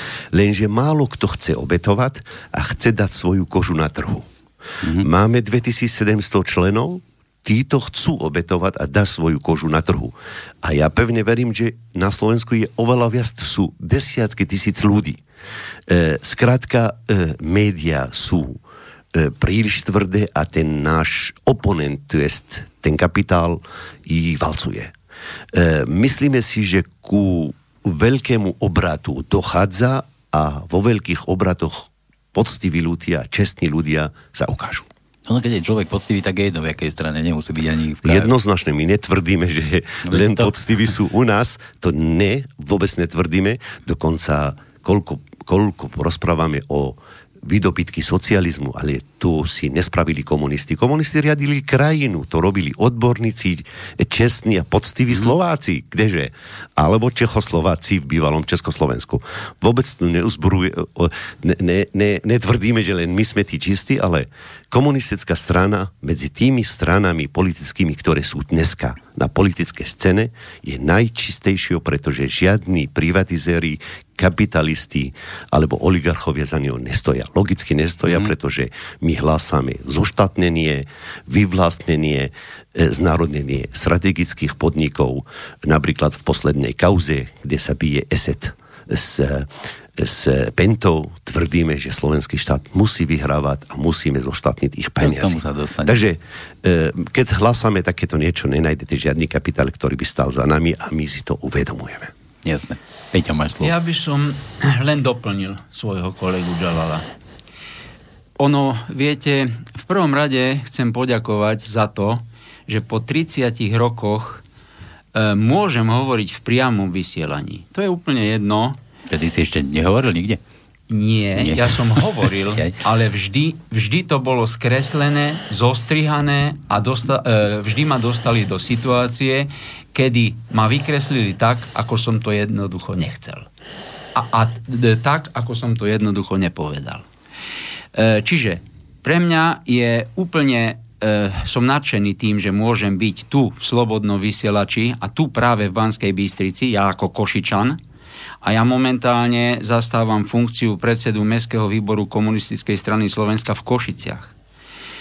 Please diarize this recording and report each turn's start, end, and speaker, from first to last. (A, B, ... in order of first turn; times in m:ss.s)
0:00.3-0:04.3 A
0:04.8-0:15.2 A
0:15.9-0:18.6 A
0:19.1-0:24.9 A
0:25.5-0:34.9 A
0:35.3-0:38.3 B
0:38.0-1:42.1 A
0:40.0-0:40.5 B
1:35.0-1:36.0 B
1:42.4-1:43.7 B
1:43.6-1:47.0 C
1:48.4-1:54.4 C
1:55.1-1:58.8 C
1:59.1-2:00.4 B
2:00.9-2:13.5 C
2:01.4-2:02.7 B
2:14.1-2:17.0 C
2:18.0-2:27.8 C
2:28.4-2:34.3 C